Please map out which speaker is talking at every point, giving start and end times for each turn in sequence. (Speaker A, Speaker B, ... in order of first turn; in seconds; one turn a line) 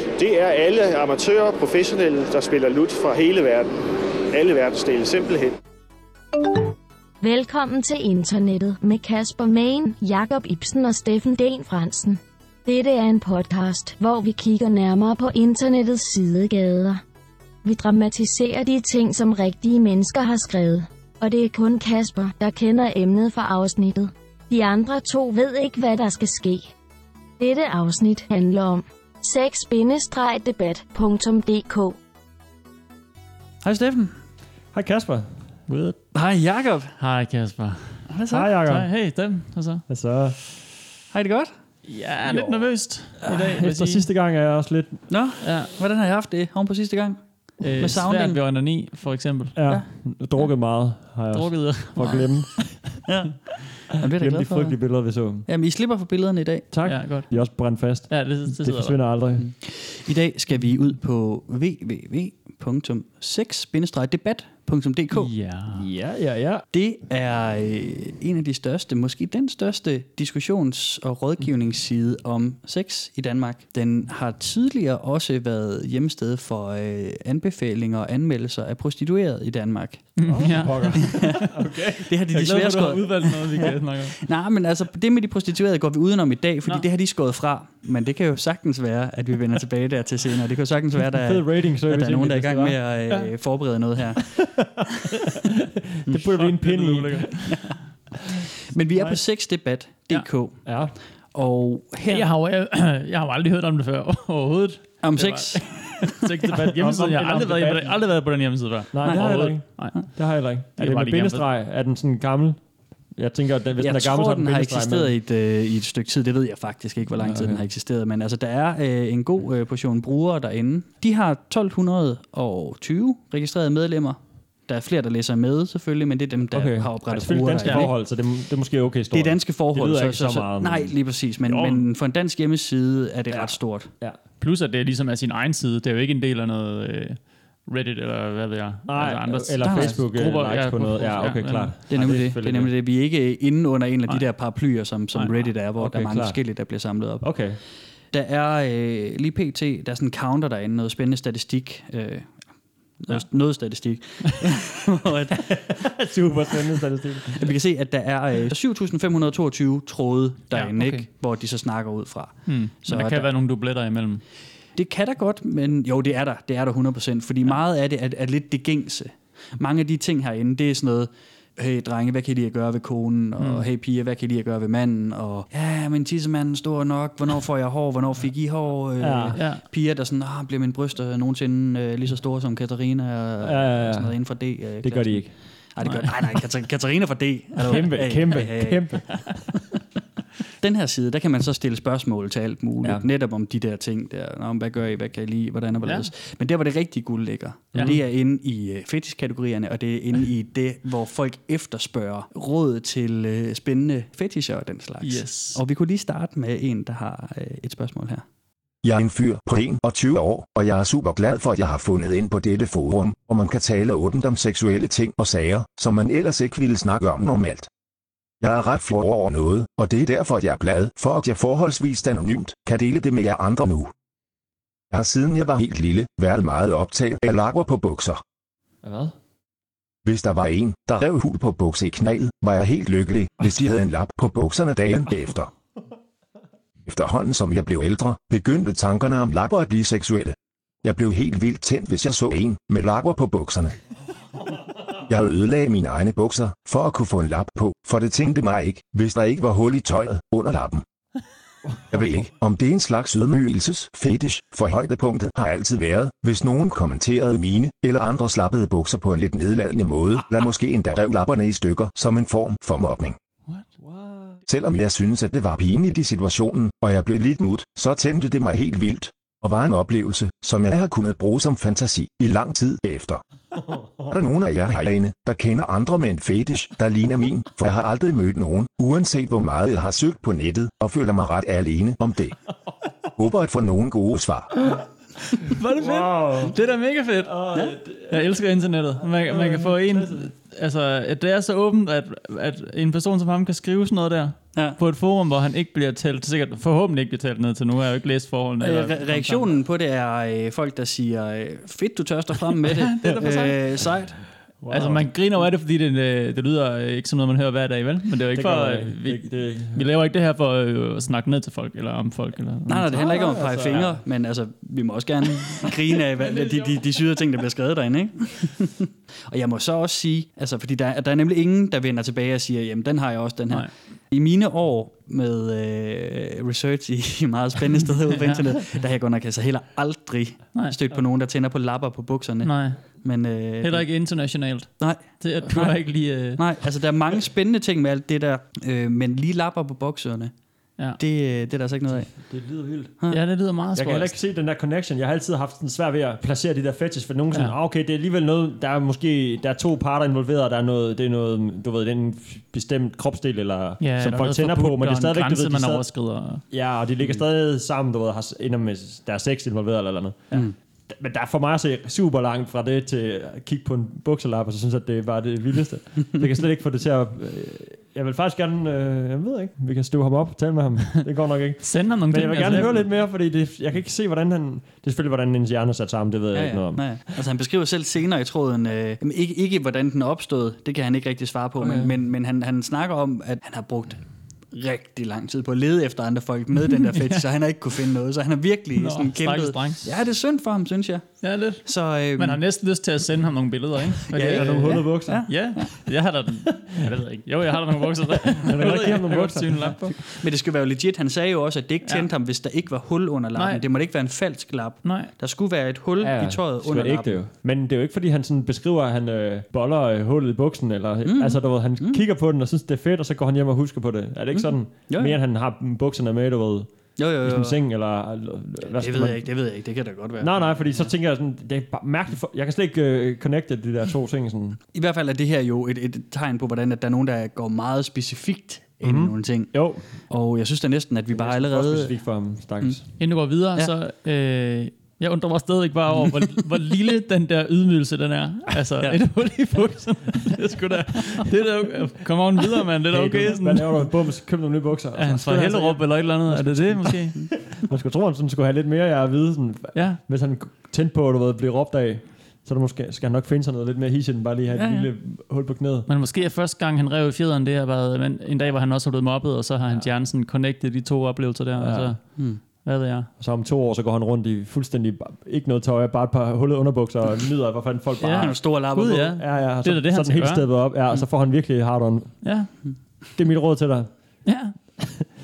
Speaker A: 0.2-3.7
Speaker A: 4.3-5.6
Speaker B: 7.2-17.0
Speaker B: 17.6-26.7
Speaker B: 27.4-32.0
Speaker C: 33.6-34.1
Speaker D: 34.7-35.9
Speaker E: 35.7-35.9
Speaker C: 36.1-37.0
Speaker E: 37.0-38.1
Speaker C: 38.1-38.5
Speaker D: 38.3-38.9
Speaker E: 38.6-39.9
Speaker D: 39.9-40.4
Speaker C: 41.1-41.5
Speaker E: 41.9-44.1
Speaker D: 42.2-45.1
Speaker C: 45.1-48.4
Speaker E: 45.4-45.7
Speaker E: 47.6-49.6
Speaker D: 49.5-53.0
Speaker E: 51.3-53.0
Speaker C: 53.1-54.8
Speaker D: 54.1-55.5
Speaker C: 55.5-56.7
Speaker D: 56.7-59.5
Speaker E: 56.8-59.2
Speaker C: 59.4-65.3
Speaker E: 65.2-65.9
Speaker D: 65.7-66.7
Speaker C: 66.7-80.2
Speaker E: 80.2-81.6
Speaker D: 80.3-82.1
Speaker C: 81.0-81.3
Speaker C: 82.1-94.7
Speaker E: 82.3-84.2
Speaker D: 91.2-92.8
Speaker D: 94.2-94.8
Speaker D: 95.5-97.6
Speaker E: 96.4-97.8
Speaker D: 98.5-99.2
Speaker C: 98.7-102.3
Speaker D: 100.7-101.0
Speaker E: 102.0-111.5
Speaker C: 105.0-106.2
Speaker D: 106.6-108.1
Speaker D: 108.9-115.1
Speaker C: 109.0-110.1
Speaker C: 113.8-128.0
Speaker D: 117.3-117.6
Speaker D: 126.5-130.9
Speaker E: 127.6-127.9
Speaker C: 129.1-133.9
Speaker D: 131.5-131.8
Speaker D: 133.3-134.2
Speaker E: 134.4-141.8
Speaker D: 138.9-142.7
Speaker C: 139.6-140.0
Speaker C: 141.9-147.5
Speaker E: 145.1-145.6
Speaker D: 145.8-146.4
Speaker D: 147.2-147.6
Speaker C: 148.1-155.5
Speaker D: 155.4-157.6
Speaker C: 157.4-163.3
Speaker E: 160.5-161.1
Speaker E: 162.5-164.2
Speaker C: 164.8-189.6
Speaker E: 173.4-173.7
Speaker D: 179.0-179.4
Speaker E: 179.3-179.7
Speaker D: 183.4-185.4
Speaker E: 185.8-186.1
Speaker D: 187.6-189.6
Speaker C: 190.6-208.2
Speaker E: 195.8-196.1
Speaker E: 205.0-205.6
Speaker F: 208.8-217.7
Speaker F: 218.4-223.9
Speaker F: 224.9-228.2
Speaker D: 228.8-229.2
Speaker F: 230.1-235.5
Speaker F: 236.9-243.8
Speaker F: 245.0-250.8
Speaker F: 251.9-263.2
Speaker D: 263.8-264.4
Speaker F: 264.5-273.2
Speaker F: 274.1-282.4
Speaker F: 283.2-284.5
Speaker E: 285.4-287.4
Speaker D: 285.8-286.6
Speaker D: 287.2-288.4
Speaker E: 288.1-299.6
Speaker D: 289.0-290.3
Speaker C: 294.5-294.8
Speaker C: 298.6-304.2
Speaker E: 302.7-303.6
Speaker D: 303.1-303.5
Speaker D: 304.6-305.1
Speaker E: 304.7-313.4
Speaker D: 308.3-309.9
Speaker C: 312.7-333.9
Speaker D: 312.9-314.0
Speaker E: 328.1-328.5
Speaker E: 330.5-330.8
Speaker E: 332.4-333.1
Speaker E: 333.6-336.4
Speaker C: 334.8-340.4
Speaker C: 341.0-342.4
Speaker D: 341.9-343.0
Speaker E: 343.1-344.2
Speaker D: 343.7-355.9
Speaker E: 347.3-347.6
Speaker E: 353.8-356.4
Speaker D: 356.5-377.0
Speaker C: 360.3-360.6
Speaker E: 371.6-372.9
Speaker C: 376.3-392.4
Speaker D: 381.6-381.9
Speaker E: 386.9-387.2
Speaker E: 388.8-389.9
Speaker E: 391.2-400.2
Speaker C: 394.1-395.8
Speaker D: 394.3-395.8
Speaker D: 398.4-399.9
Speaker C: 400.2-407.2
Speaker E: 403.4-403.6
Speaker E: 404.8-405.1
Speaker D: 406.0-419.3
Speaker C: 411.1-412.0
Speaker C: 414.3-415.2
Speaker C: 417.0-417.6
Speaker C: 418.8-420.9
Speaker D: 420.2-424.6
Speaker C: 424.7-433.7
Speaker D: 428.8-430.1
Speaker D: 431.1-432.9
Speaker E: 433.0-443.9
Speaker D: 442.9-455.9
Speaker E: 445.0-447.2
Speaker E: 449.7-450.0
Speaker C: 454.5-454.9
Speaker E: 455.9-463.1
Speaker D: 461.6-461.9
Speaker C: 462.1-462.4
Speaker D: 463.2-472.3
Speaker E: 468.0-470.8
Speaker C: 468.1-469.0
Speaker E: 472.2-472.6
Speaker D: 473.1-473.9
Speaker E: 474.2-474.6